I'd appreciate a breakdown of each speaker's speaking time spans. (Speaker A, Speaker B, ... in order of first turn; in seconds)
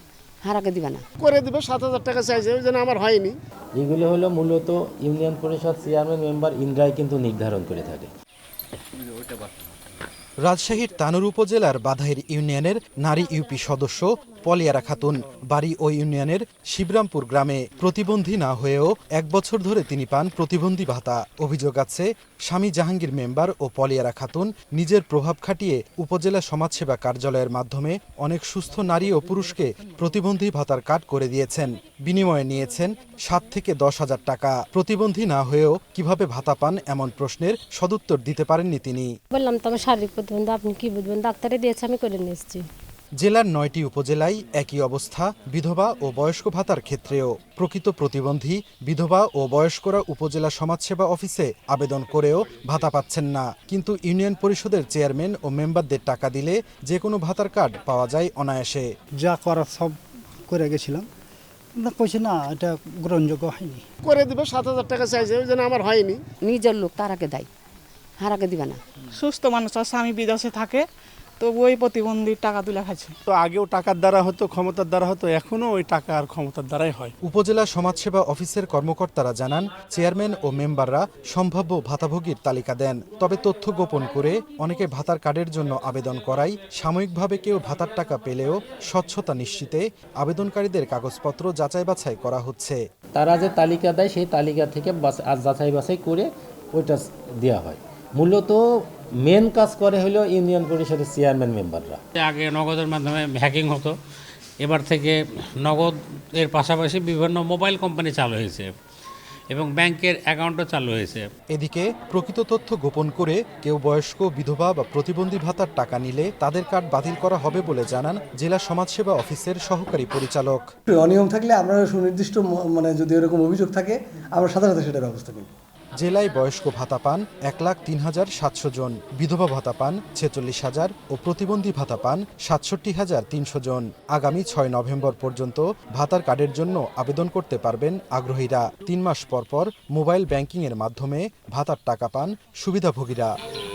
Speaker A: 0.4-1.0, 66.5-67.5, 68.2-68.8
Speaker B: 1.2-3.3, 64.0-66.2
Speaker C: 3.8-8.1, 93.1-102.0
Speaker D: 10.4-39.1, 43.2-58.9, 77.2-92.8, 111.5-120.6, 126.0-143.3
Speaker E: 39.3-42.6
Speaker F: 59.2-59.9, 60.5-61.0, 61.8-63.8
Speaker G: 69.1-70.8, 71.4-73.1
Speaker H: 73.2-77.1
Speaker I: 102.2-103.9, 104.6-108.7, 109.5-111.2
Speaker J: 120.9-125.5